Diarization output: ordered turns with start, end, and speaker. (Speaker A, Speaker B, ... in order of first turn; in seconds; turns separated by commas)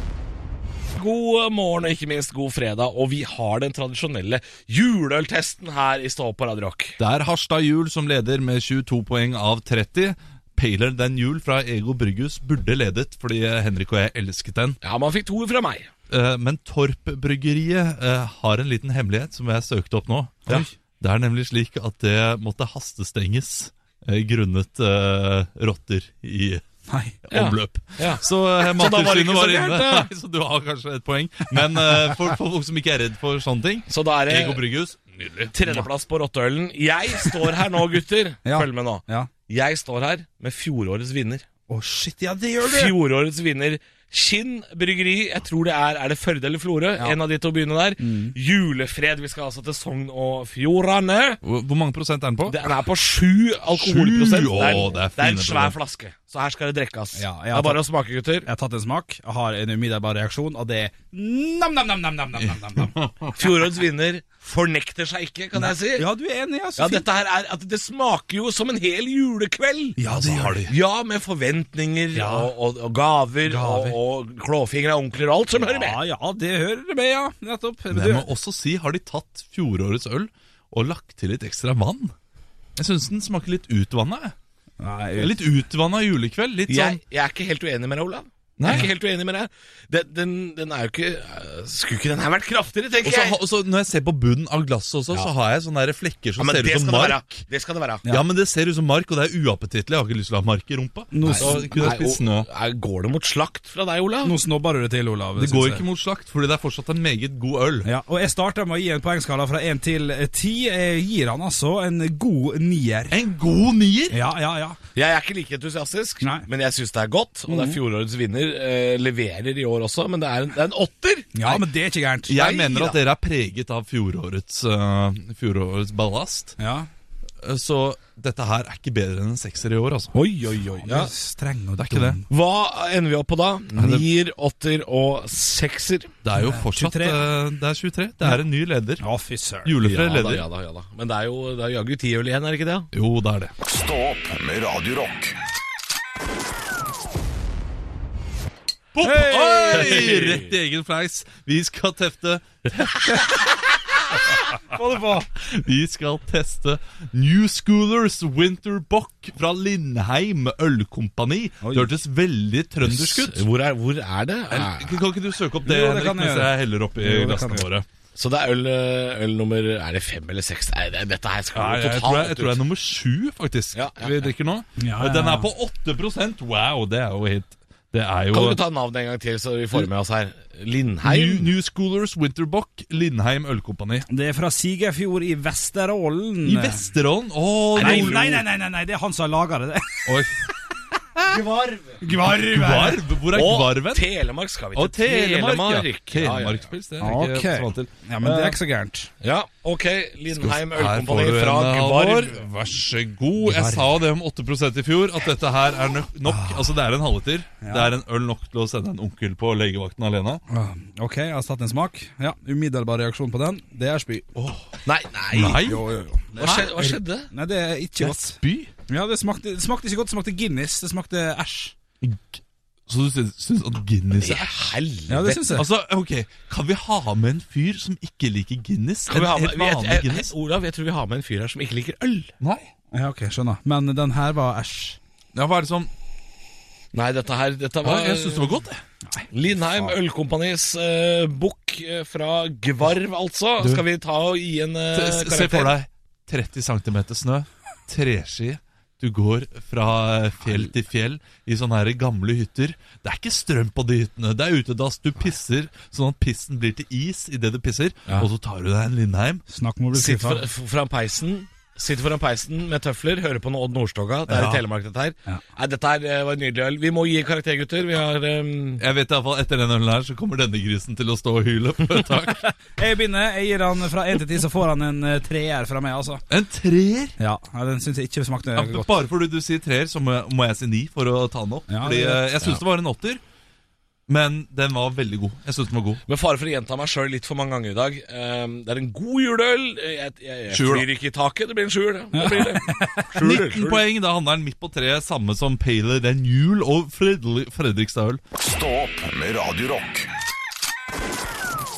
Speaker A: 0.9-7.0, Speaker B: 7.0-14.8, Speaker A: 14.8-15.9, Speaker B: 16.1-26.6, Speaker C: 26.9-27.2, Speaker B: 27.3-35.9, Speaker A: 27.3-30.1, Speaker A: 33.9-34.6, Speaker A: 35.5-41.4, Speaker C: 38.4-39.3, Speaker C: 41.7-43.0, Speaker A: 42.6-51.4, Speaker C: 48.0-48.3, Speaker B: 51.4-52.7, Speaker A: 52.5-58.5, Speaker B: 53.7-55.7, Speaker C: 57.1-57.8, Speaker C: 58.4-63.0, Speaker B: 62.8-63.3, Speaker A: 63.4-66.1, Speaker C: 65.5-67.0, Speaker A: 66.8-70.0, Speaker C: 70.0-70.7, Speaker B: 70.1-70.7, Speaker A: 70.7-76.0, Speaker C: 72.1-72.5, Speaker C: 73.5-74.0, Speaker C: 75.5-78.3, Speaker B: 77.9-82.1, Speaker B: 82.8-84.3, Speaker C: 84.8-85.4, Speaker B: 85.2-87.0, Speaker A: 86.7-93.4, Speaker B: 88.6-88.9, Speaker B: 93.0-97.4, Speaker A: 96.4-98.0, Speaker B: 98.0-102.5, Speaker C: 101.1-101.7, Speaker A: 101.2-104.3, Speaker C: 104.2-105.8, Speaker B: 105.4-107.9, Speaker C: 107.8-113.2, Speaker B: 113.1-114.2, Speaker C: 114.1-114.8, Speaker A: 114.9-121.6, Speaker C: 116.2-116.5, Speaker C: 117.5-117.8, Speaker C: 121.3-122.4, Speaker B: 122.3-126.5, Speaker A: 122.4-123.0, Speaker C: 126.6-126.9, Speaker B: 127.4-130.1, Speaker A: 130.1-131.1, Speaker C: 130.8-132.2, Speaker B: 131.8-132.2, Speaker A: 132.3-136.1, Speaker B: 133.8-134.1, Speaker B: 136.2-139.0, Speaker C: 136.3-137.2, Speaker C: 139.0-139.7, Speaker B: 139.6-140.4, Speaker A: 139.8-142.9, Speaker B: 142.9-143.5, Speaker D: 143.6-145.3, Speaker B: 148.9-153.2, Speaker C: 149.0-150.1, Speaker A: 149.7-150.5, Speaker C: 154.7-155.3, Speaker B: 155.4-163.4, Speaker C: 161.6-161.9, Speaker A: 162.8-165.0, Speaker B: 164.5-167.8, Speaker C: 165.6-167.7, Speaker A: 168.2-172.6, Speaker B: 171.5-178.6, Speaker A: 173.7-174.3, Speaker C: 174.8-175.5, Speaker A: 178.3-181.5, Speaker B: 181.0-184.1, Speaker C: 184.1-186.8, Speaker B: 186.4-188.4, Speaker A: 187.8-188.3, Speaker C: 187.8-190.1, Speaker B: 190.1-190.3, Speaker A: 191.3-192.0, Speaker C: 192.0-193.0, Speaker B: 192.1-194.1, Speaker A: 193.3-196.7, Speaker B: 194.7-198.3, Speaker C: 197.0-199.1, Speaker A: 199.2-202.4, Speaker B: 200.3-210.4, Speaker C: 203.4-203.9, Speaker C: 206.2-206.7, Speaker C: 207.6-207.9, Speaker C: 210.5-214.6, Speaker A: 214.8-215.7, Speaker B: 215.3-215.8, Speaker C: 215.6-221.7, Speaker A: 216.4-217.3, Speaker B: 216.4-216.9, Speaker B: 218.0-218.7, Speaker B: 222.0-224.7, Speaker A: 224.2-225.6, Speaker C: 225.1-225.6, Speaker B: 225.5-230.3, Speaker A: 229.1-232.3, Speaker B: 232.4-232.7, Speaker C: 232.9-235.0, Speaker B: 235.3-235.9, Speaker A: 236.9-238.5, Speaker B: 237.8-238.8, Speaker A: 239.3-245.7, Speaker B: 244.9-259.4, Speaker C: 259.5-260.4, Speaker A: 259.9-268.8, Speaker C: 264.3-264.6, Speaker B: 268.8-272.5, Speaker C: 272.6-276.2, Speaker B: 276.3-277.1, Speaker C: 277.2-278.9, Speaker B: 278.6-283.2, Speaker C: 281.7-282.2, Speaker B: 284.1-286.0, Speaker A: 286.1-293.8, Speaker B: 290.5-290.9, Speaker C: 292.1-293.1, Speaker B: 293.2-298.2, Speaker D: 298.4-300.1